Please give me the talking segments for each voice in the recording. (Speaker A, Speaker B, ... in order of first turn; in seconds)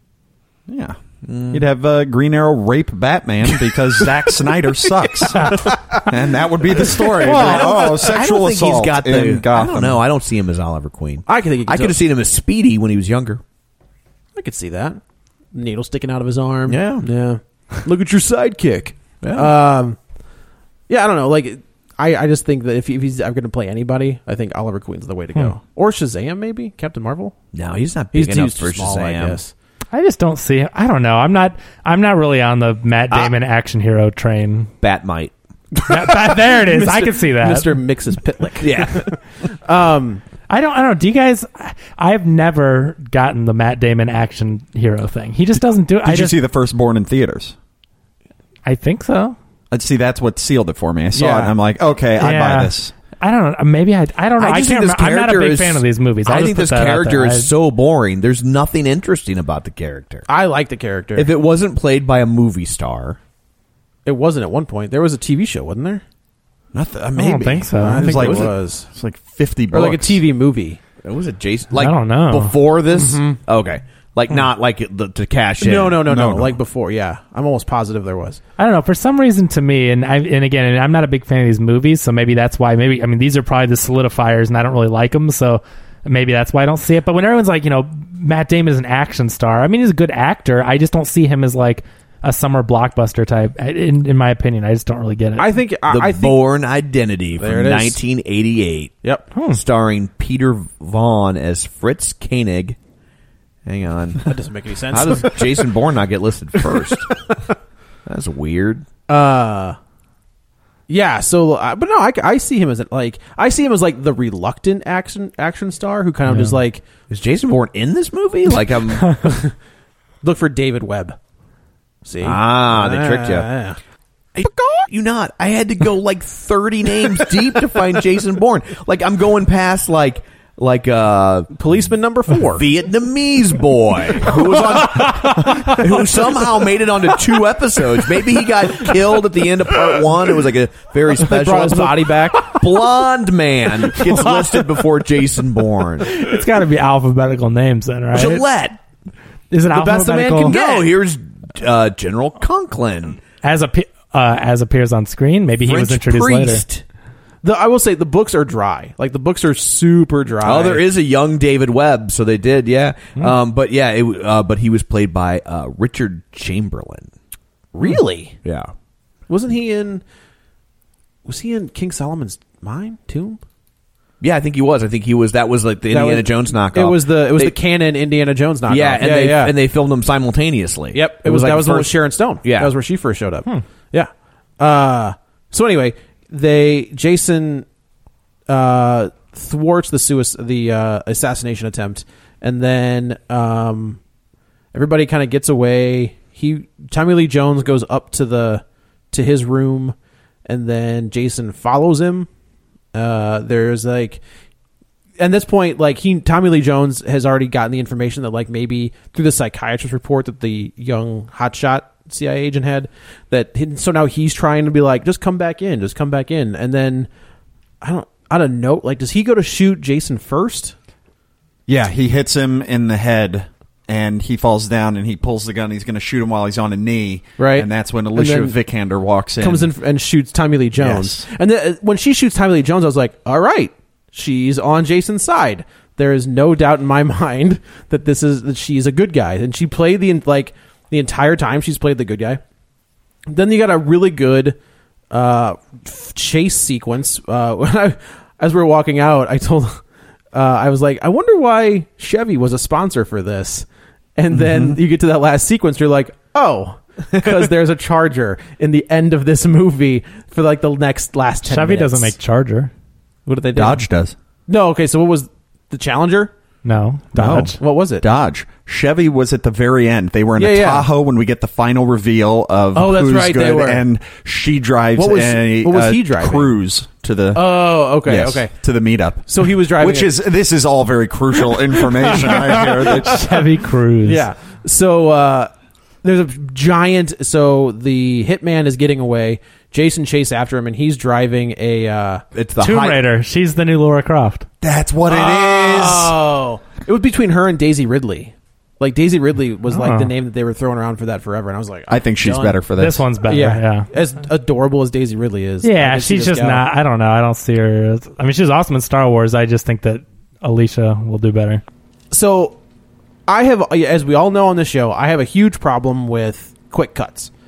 Speaker A: 0.7-1.0, 1.5-10.0, 46.0-47.5, 49.7-52.9, 66.7-70.2, 76.0-76.6, 221.7-229.7, 230.8-231.2, 254.3-254.8, 263.6-264.1, 267.2-283.2, 294.6-296.1, 301.9-303.1
Speaker B: 1.2-1.7, 3.5-4.3, 7.2-13.4, 16.7-17.1, 19.2-19.5, 27.5-29.4, 34.8-35.3, 38.6-39.1, 54.4-60.3, 61.2-63.2, 68.2-68.5, 71.0-76.0, 95.9-99.0, 99.5-102.8, 103.7-104.3, 104.9-107.2, 108.1-108.8, 117.1-119.3, 122.2-123.5, 124.4-131.5, 132.6-146.2, 148.1-148.8, 150.4-153.2, 155.7-156.8, 160.4-167.1, 168.4-168.7, 174.2-177.6, 178.7-181.9, 182.4-182.7, 292.4-293.0
Speaker C: 7.0-8.0, 11.3-12.0, 14.4-15.0, 15.5-20.0, 20.9-27.4, 28.1-29.5, 35.8-40.2, 51.1-51.5, 60.3-61.3, 64.1-66.0, 67.8-68.9, 69.7-70.8, 72.9-73.4, 75.6-78.4, 95.4-96.4, 97.4-98.0, 99.0-99.3, 104.2-105.7, 106.7-107.0, 109.1-109.8, 110.9-116.8, 119.2-119.5, 120.2-121.2, 122.0-123.8, 124.5-124.9, 131.6-132.7, 141.1-142.8, 149.7-150.9, 157.4-160.8, 167.7-168.4, 169.3-170.0, 171.3-173.4, 175.9-179.5, 180.9-187.7, 188.5-194.0, 194.7-199.9, 200.5-202.3, 202.9-204.2, 205.2-217.1, 217.8-220.7, 227.4-228.6, 229.4-242.4, 243.3-244.6, 245.1-249.8, 250.3-262.1, 263.3-263.8, 264.5-266.3, 267.6-268.1, 270.4-270.9, 272.7-273.8, 275.0-276.5, 277.3-278.5, 279.3-280.1, 281.7-283.3, 284.0-285.5, 286.0-292.2, 295.1-302.6, 303.2-306.6, 312.1-312.6, 313.3-317.3
Speaker D: 29.9-34.7, 35.9-37.8, 40.5-46.4, 48.7-49.4, 52.2-57.5, 67.2-68.3, 71.8-72.5, 78.6-95.5, 99.3-99.6, 116.3-116.6, 146.1-148.4, 149.5-150.6, 153.4-156.7, 261.4-262.7, 266.6-267.6, 282.3-284.3, 292.6-294.5, 299.7-300.1, 302.8-303.9, 305.6-311.6